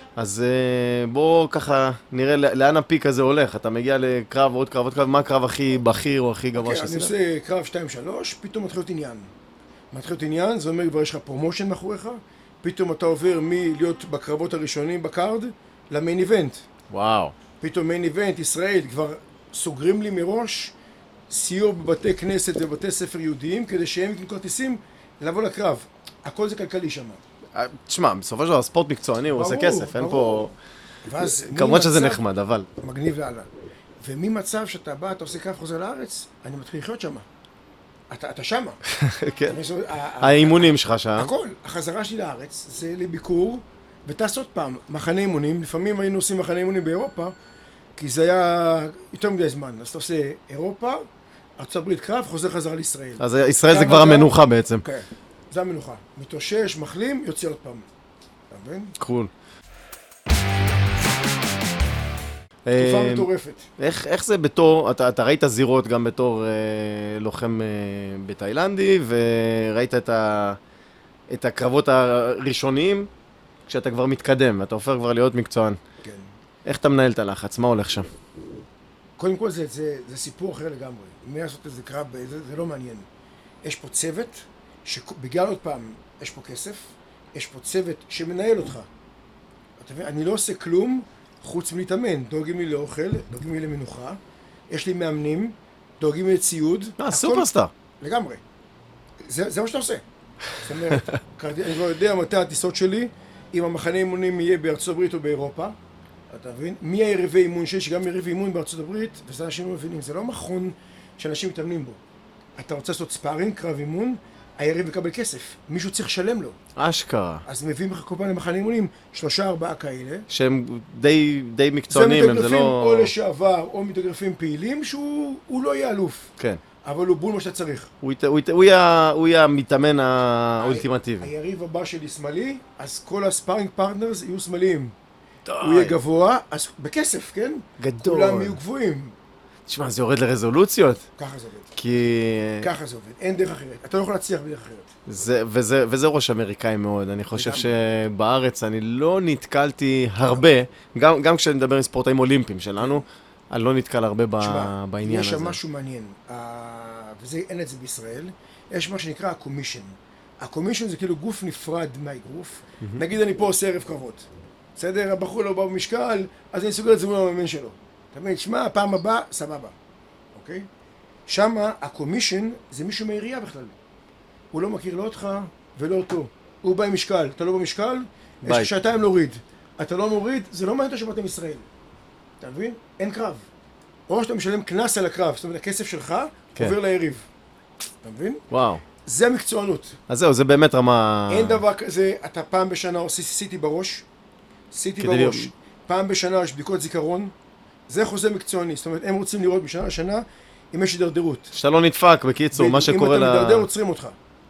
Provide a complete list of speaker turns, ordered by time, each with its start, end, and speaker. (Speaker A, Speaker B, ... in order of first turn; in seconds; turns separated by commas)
Speaker A: 0.2-7.1, Speaker B: 6.5-9.3, Speaker B: 9.9-16.6, Speaker A: 16.9-17.4, Speaker B: 17.6-20.8, Speaker B: 21.3-27.2, Speaker A: 27.6-30.5, Speaker B: 29.4-30.5, Speaker B: 31.1-32.2, Speaker A: 31.2-32.7, Speaker B: 32.8-33.5, Speaker B: 34.0-37.3, Speaker B: 38.1-38.8, Speaker A: 38.9-39.6, Speaker B: 39.5-47.3, Speaker A: 40.2-41.3, Speaker B: 48.0-51.0, Speaker B: 51.6-57.9, Speaker A: 53.2-54.9, Speaker B: 58.5-59.0, Speaker A: 59.0-59.3, Speaker A: 62.7-70.6, Speaker B: 62.8-63.7, Speaker A: 71.3-73.1, Speaker A: 73.7-75.8, Speaker B: 76.0-76.3, Speaker A: 76.7-78.1, Speaker B: 79.2-83.1, Speaker B: 83.6-88.9, Speaker B: 89.8-94.2, Speaker B: 94.7-98.4, Speaker A: 97.0-97.7, Speaker B: 99.2-100.0, Speaker B: 100.6-105.8, Speaker B: 106.3-112.0, Speaker B: 112.6-116.6, Speaker A: 116.8-117.5, Speaker B: 117.5-120.3, Speaker A: 120.3-123.1, Speaker B: 121.9-126.3, Speaker B: 126.8-127.9, Speaker A: 128.0-131.3, Speaker B: 130.6-134.9, Speaker A: 135.5-136.0, Speaker B: 135.6-139.2, Speaker A: 137.8-138.6, Speaker A: 139.7-141.1, Speaker B: 141.2-141.7, Speaker A: 141.8-142.7, Speaker B: 142.6-144.9, Speaker A: 145.1-155.6, Speaker B: 147.3-147.7, Speaker B: 154.4-169.8, Speaker B: 170.3-170.7, Speaker B: 171.3-173.8, Speaker B: 174.5-181.7, Speaker A: 178.4-178.7, Speaker B: 182.4-183.5, Speaker B: 184.1-187.3, Speaker B: 188.0-188.4, Speaker A: 188.5-188.8, Speaker B: 189.0-190.0, Speaker A: 190.1-191.6, Speaker B: 191.3-194.1, Speaker B: 194.7-197.3, Speaker A: 195.0-195.5, Speaker B: 197.9-201.5, Speaker A: 201.5-203.7, Speaker B: 202.5-204.2